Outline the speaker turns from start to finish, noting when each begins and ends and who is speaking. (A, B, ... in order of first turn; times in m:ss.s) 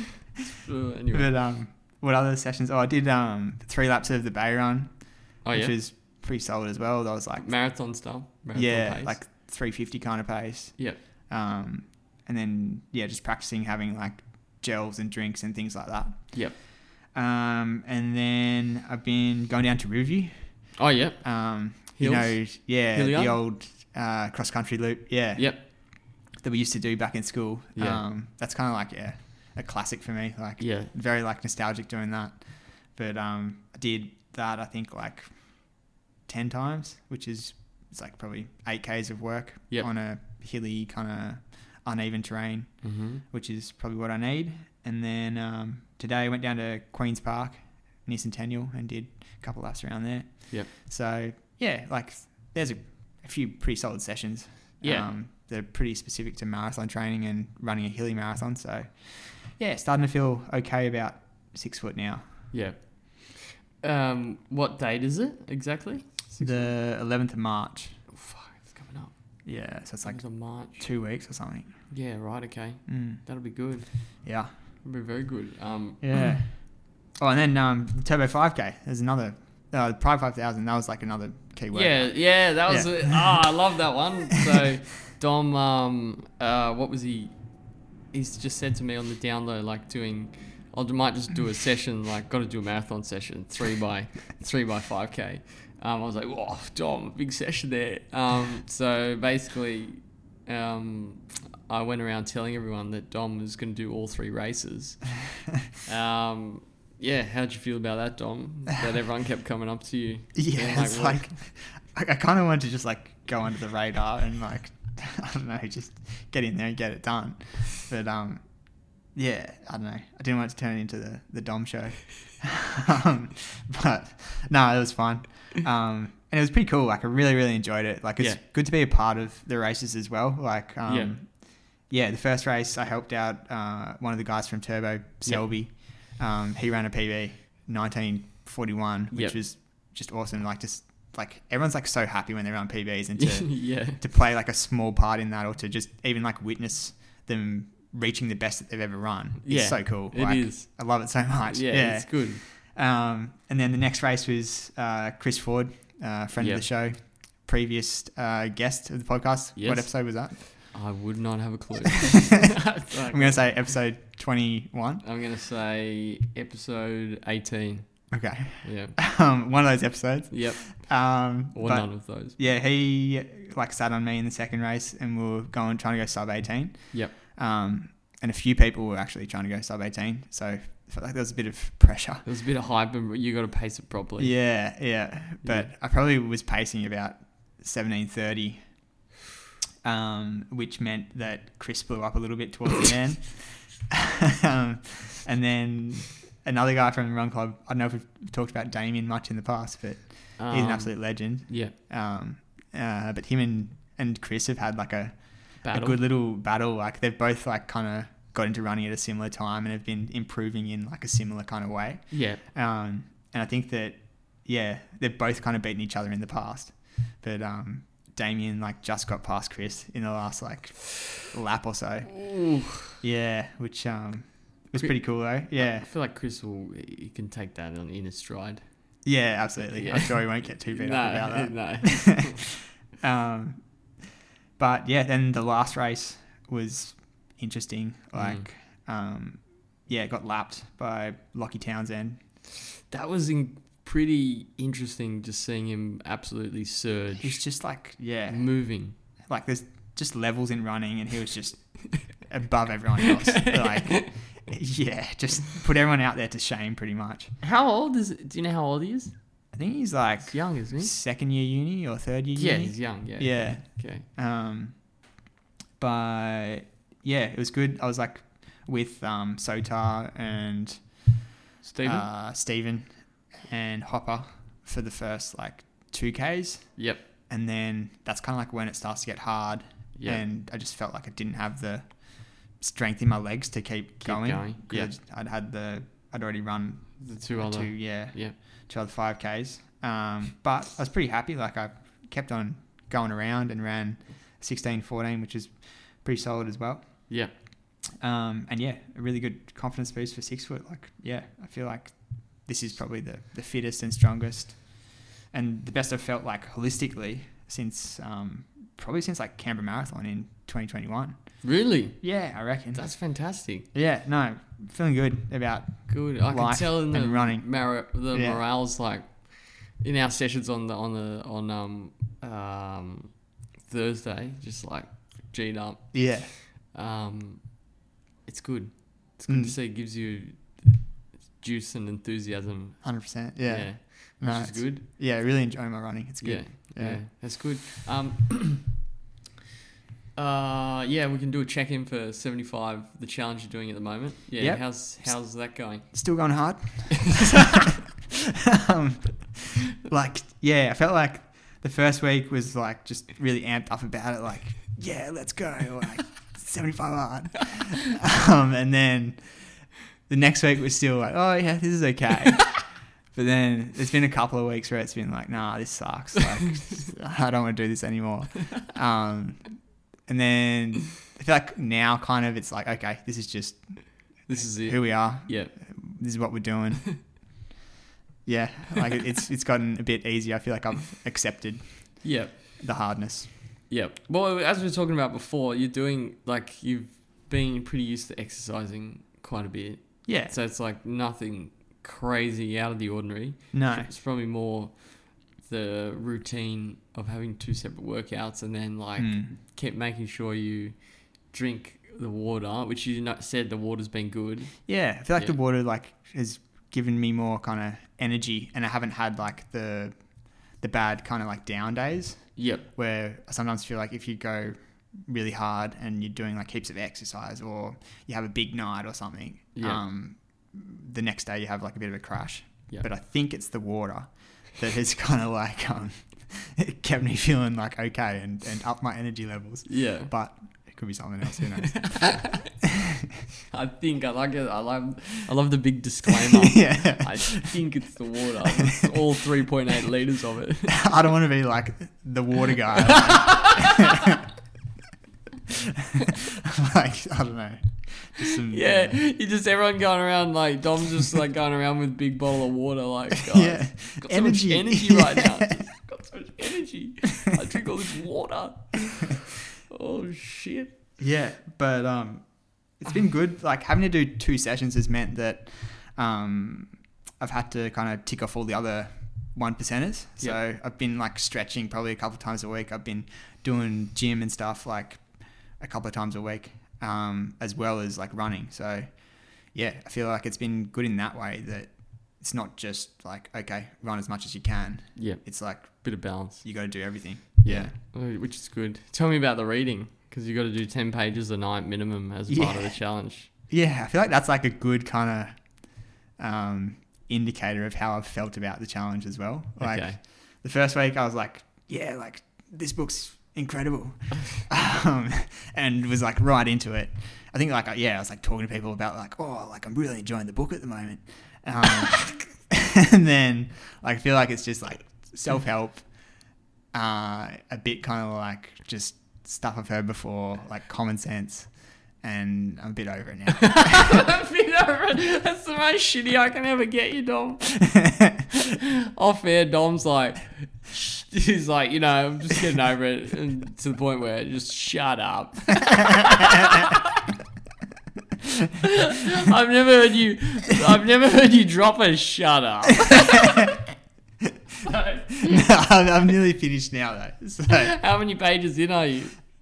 0:00.4-0:01.3 A
0:01.1-0:07.6 B
0:05.4-0:05.7 A
0:07.4-0:09.2 A
0:08.5-1:02.5 B
0:16.3-0:16.6 A
0:20.8-0:23.4 A
0:25.3-0:25.6 A
0:27.8-0:28.0 A
0:30.6-0:30.9 A
0:42.8-0:43.2 A
0:54.8-0:55.1 A
1:02.5-1:06.8 A
1:06.4-1:08.0 B
1:08.1-1:10.8 A
1:09.4-1:11.9 B
1:11.9-1:14.3 A
1:12.9-1:13.2 B
1:14.2-1:14.5 B
1:14.8-1:16.3 A
1:16.0-1:23.5 B
1:21.7-1:45.1 A
1:45.8-1:51.2 A
1:50.3-2:40.7 B
2:10.9-2:11.1 A
2:19.1-2:19.4 A
2:23.2-2:24.0 A
2:29.4-2:30.8 A
2:31.4-2:32.4 A
2:36.4-2:36.6 A
2:39.6-2:43.4 A
2:43.1-2:45.0 B
2:45.0-2:49.0 A
2:48.1-3:02.2 B
2:50.3-2:52.4 A
3:02.2-3:04.4 A
3:04.2-3:08.8 B
3:05.4-3:05.7 A
3:09.8-3:42.2 B
3:20.4-3:21.7 A
3:25.6-3:26.0 A
3:32.1-3:32.4 A
3:42.1-3:42.9 A
3:42.8-3:45.9 B
3:45.5-3:48.6 A
3:49.0-3:53.6 B
3:49.7-3:52.4 A
3:54.6-4:02.2 B
3:58.1-3:58.4 A
4:02.9-4:07.5 A
4:07.2-4:08.5 B
4:08.3-4:08.9 A
4:09.3-4:17.3 B
4:13.3-4:14.0 A
4:17.4-4:19.1 A
4:19.5-4:25.0 B
4:20.3-4:20.9 A
4:22.4-4:24.0 A
4:25.8-4:31.2 B
4:31.6-4:32.0 A
4:31.8-4:57.2 B
4:36.8-4:37.0 A
4:39.9-4:40.2 A
4:44.0-4:44.9 A
4:47.0-4:48.3 A
4:57.9-5:12.9 B
5:11.4-5:13.6 A
5:13.7-5:18.4 B
5:15.9-5:34.8 A
5:25.9-5:26.3 B
5:29.3-5:29.6 B
5:32.8-5:37.1 B
5:36.2-5:38.7 A
5:40.2-5:46.4 A
5:44.4-5:47.4 B
5:48.4-6:17.2 B
6:14.2-6:15.5 A
6:18.2-6:23.3 B
6:22.0-6:22.6 A
6:23.7-6:45.4 A
6:30.0-6:30.3 B
6:33.5-6:33.9 B
6:39.0-6:39.3 B
6:44.6-7:12.5 B
6:52.4-6:52.6 A
6:59.5-6:59.8 A
7:09.6-7:10.1 A
7:11.7-7:12.4 A
7:13.5-7:20.9 A
7:16.5-7:17.6 B
7:20.7-7:24.1 B
7:22.9-7:23.9 A
7:26.0-7:29.0 B
7:28.5-7:40.8 A
7:33.3-7:35.3 B
7:41.0-8:07.7 B
8:05.0-8:13.3 A
8:12.3-8:36.2 B
8:19.6-8:20.0 A
8:36.7-8:44.0 B
8:43.4-8:56.8 A
8:58.6-9:03.6 A
9:04.6-9:05.4 A
9:05.3-9:07.7 B
9:07.5-9:09.2 A